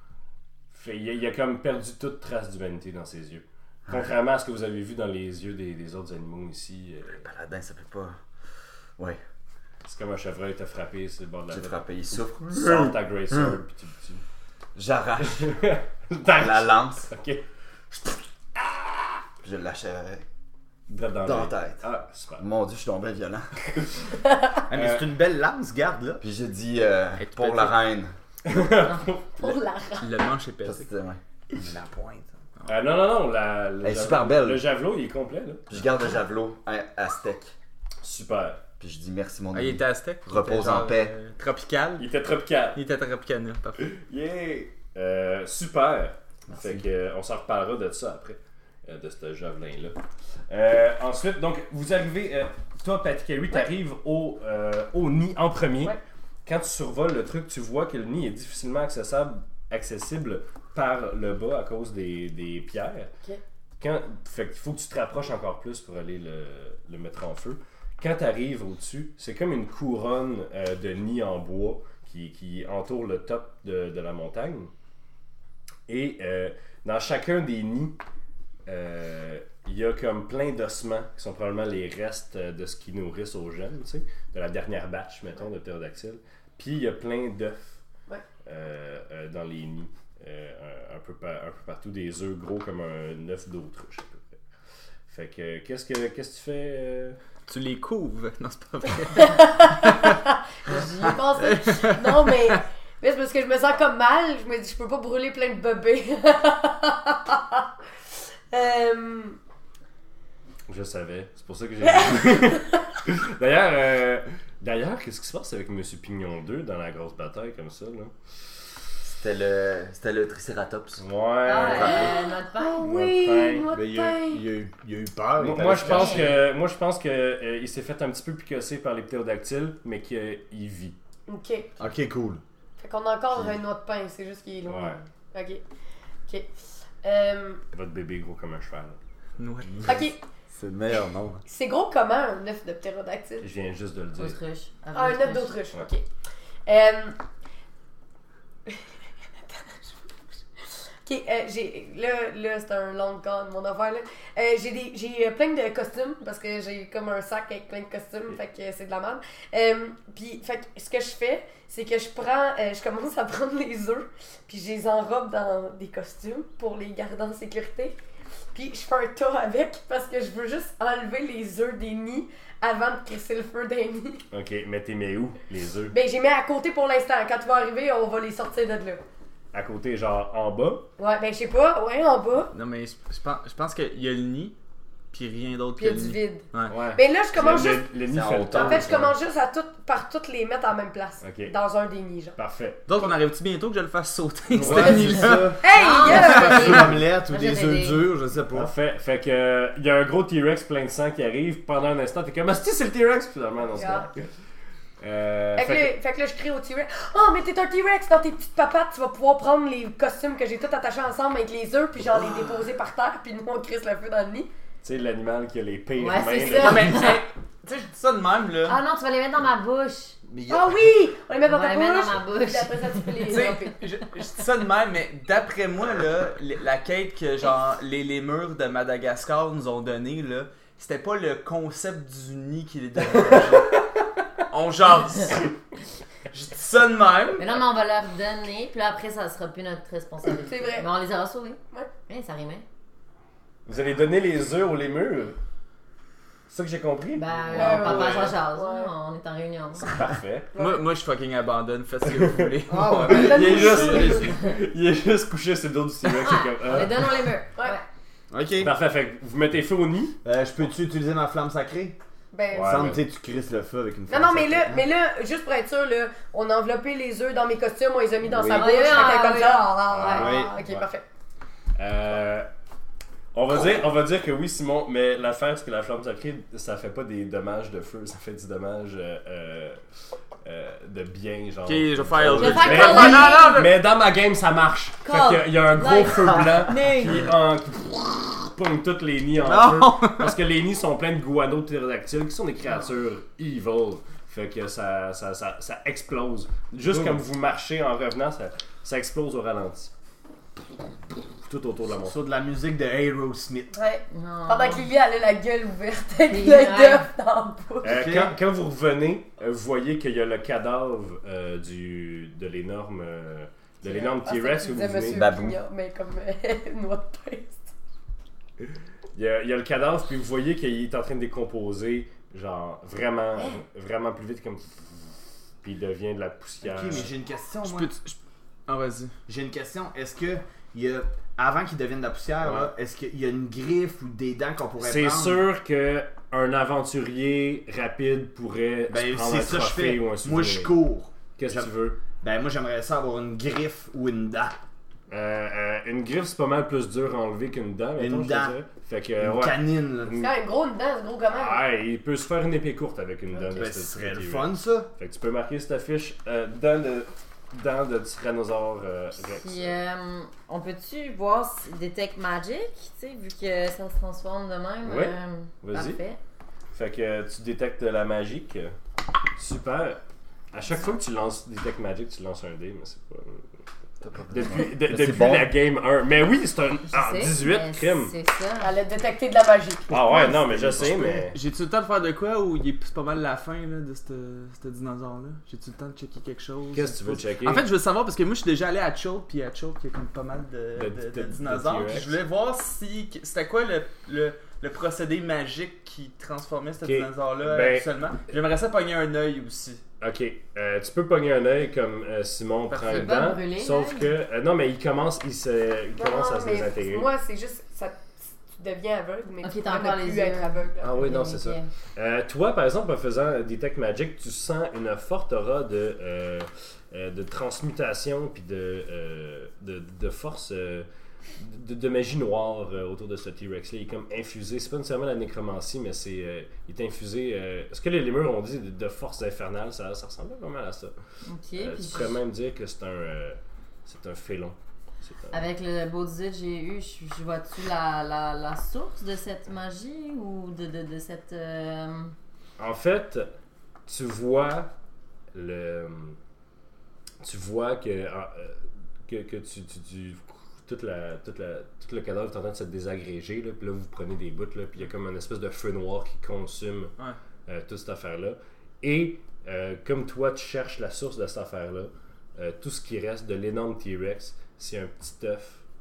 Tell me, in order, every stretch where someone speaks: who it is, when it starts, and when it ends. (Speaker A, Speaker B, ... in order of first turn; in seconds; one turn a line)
Speaker A: 0.7-7.2
Speaker B: 7.1-8.2
Speaker A: 9.8-11.8
Speaker B: 11.5-13.6
Speaker A: 12.5-14.2
Speaker B: 14.7-15.5
Speaker A: 15.2-19.1
Speaker B: 16.4-17.1
Speaker B: 19.4-20.2
Speaker A: 20.9-22.4
Speaker B: 21.2-21.8
Speaker B: 22.4-23.5
Speaker A: 23.7-24.1
Speaker C: 24.7-26.2
Speaker A: 24.7-25.1
Speaker B: 26.2-28.1
Speaker D: 27.2-27.8
Speaker A: 28.4-29.6
Speaker E: 29.4-30.2
Speaker D: 30.0-30.9
Speaker B: 30.6-31.2
Speaker C: 31.5-32.3
Speaker A: 32.6-35.7
Speaker B: 33.8-34.6
Speaker B: 35.7-37.5
Speaker A: 38.0-38.6
Speaker B: 38.8-41.1
Speaker D: 39.5-42.1
Speaker A: 42.0-42.8
Speaker D: 42.7-43.9
Speaker A: 43.8-50.0
Speaker B: 46.5-46.8
Speaker A: 50.5-63.1
Speaker A: 63.8-74.7
Speaker A: 75.9-78.0
Speaker A: 78.7-87.7
Speaker A: 88.4-94.4
Speaker A: 95.1-97.2
Speaker D: 97.5-100.2
Speaker E: 99.2-107.6
Speaker D: 101.4-102.6
Speaker E: 108.5-109.4
Speaker A: 110.7-118.1
Speaker E: 111.8-112.8
Speaker B: 119.0-121.0
Speaker A: 121.0-122.1
Speaker F: 121.4-122.9
Speaker B: 121.5-122.1
Speaker E: 121.9-124.4
Speaker A: 122.8-123.7
Speaker C: 123.7-126.3
Speaker A: 125.4-130.9
Speaker F: 125.7-126.4
Speaker E: 131.3-131.7
Speaker C: 131.8-132.4
Speaker E: 132.8-135.6
Speaker A: 134.7-135.0
Speaker E: 136.3-136.5
Speaker E: 137.0-137.6
Speaker A: 137.7-139.0
Speaker D: 139.4-140.1
Speaker E: 139.8-140.2
Speaker C: 140.5-141.4
Speaker E: 141.4-143.4
Speaker A: 143.4-144.4
Speaker F: 144.2-145.7
Speaker E: 144.9-146.1
Speaker E: 146.7-147.2
Speaker E: 149.4-149.9
Speaker E: 151.0-168.0
Speaker E: 168.5-174.2
Speaker A: 174.3-175.9
Speaker E: 175.9-179.0
Speaker A: 179.5-180.8
Speaker E: 181.0-182.5
Speaker D: 182.5-184.6
Speaker D: 185.1-186.7
Speaker E: 185.8-187.9
Speaker A: 186.7-189.1
Speaker B: 187.7-189.1
Speaker E: 188.5-192.3
Speaker A: 191.2-191.5
Speaker A: 192.3-192.9
Speaker D: 192.9-195.6
Speaker A: 194.5-195.4
Speaker C: 194.5-198.7
Speaker E: 195.6-196.9
Speaker F: 195.7-198.0
Speaker D: 196.1-196.7
Speaker A: 198.5-204.3
Speaker E: 203.7-204.1
Speaker A: 205.0-205.9
Speaker E: 205.6-214.5
Speaker A: 214.8-217.1
Speaker F: 216.0-217.2
Speaker D: 216.5-218.8
Speaker F: 218.6-220.2
Speaker C: 220.3-220.8
Speaker E: 220.5-223.8
Speaker F: 221.4-223.6
Speaker D: 223.2-233.8
Speaker D: 234.5-235.5
Speaker D: 236.3-237.5
Speaker F: 237.3-242.6
Speaker E: 240.3-240.9
Speaker A: 243.7-245.4
Speaker A: 246.5-248.3
Speaker F: 247.1-249.9
Speaker E: 247.5-248.9
Speaker A: 249.8-250.5
Speaker E: 250.5-250.8
Speaker D: 250.6-254.1
Speaker A: 252.1-257.3
Speaker C: 252.7-254.3
Speaker E: 253.1-254.2
Speaker F: 256.1-257.8
Speaker C: 258.3-258.7
Speaker A: 258.6-260.2
Speaker C: 260.2-262.0
Speaker E: 262.3-262.8
Speaker A: 262.5-263.0
Speaker C: 262.6-264.9
Speaker E: 264.1-271.0
Speaker C: 268.3-268.7
Speaker F: 268.4-270.4
Speaker A: 269.9-270.9
Speaker C: 270.2-270.5
Speaker A: 271.8-272.5
Speaker A: 273.3-279.8
Speaker A: 280.4-299.9
Speaker D: 281.6-283.7
Speaker F: 282.3-283.6
Speaker E: 282.6-283.2
Speaker F: 285.0-287.2
Speaker D: 289.5-290.2
Speaker C: 296.8-297.2
Speaker A: 301.4-302.2
Speaker C: 302.1-303.7
Speaker E: 303.7-308.0
Speaker F: 304.1-304.9
Speaker F: 306.3-307.1
Speaker A: 307.8-315.2
Speaker C: 307.8-308.4
Speaker E: 313.8-317.7
Speaker B: 315.1-315.6
Speaker A: 319.1-327.1
Speaker C: 326.6-327.9
Speaker D: 327.6-329.1
Speaker C: 329.3-335.4
Speaker A: 332.4-332.7
Speaker A: 334.8-340.8
Speaker C: 338.9-344.6
Speaker A: 341.4-342.0
Speaker A: 345.1-350.3
Speaker C: 348.0-348.6
Speaker C: 349.2-350.2
Speaker E: 350.2-351.6
Speaker A: 351.3-359.8
Speaker C: 353.5-354.9
Speaker F: 359.2-366.2
Speaker A: 364.8-366.0
Speaker A: 366.7-368.7
Speaker A: 369.4-370.0
Speaker A: 370.5-373.5
Speaker B: 374.0-375.5
Speaker A: 374.3-378.1
Speaker F: 376.9-378.7
Speaker E: 378.6-380.0
Speaker A: 379.9-381.4
Speaker B: 380.4-380.9
Speaker D: 381.3-399.8
Speaker A: 386.7-387.6
Speaker A: 390.8-392.2
Speaker A: 396.8-397.9
Speaker A: 400.0-407.1
Speaker D: 402.7-403.1
Speaker F: 402.8-404.1
Speaker E: 406.0-411.0
Speaker F: 409.4-411.7
Speaker A: 410.8-430.9
Speaker F: 431.2-432.1
Speaker A: 431.6-435.4
Speaker F: 435.3-442.1
Speaker A: 442.6-443.3
Speaker A: 443.9-444.7
Speaker A: 445.3-446.2
Speaker A: 447.2-456.9
Speaker A: 457.4-465.6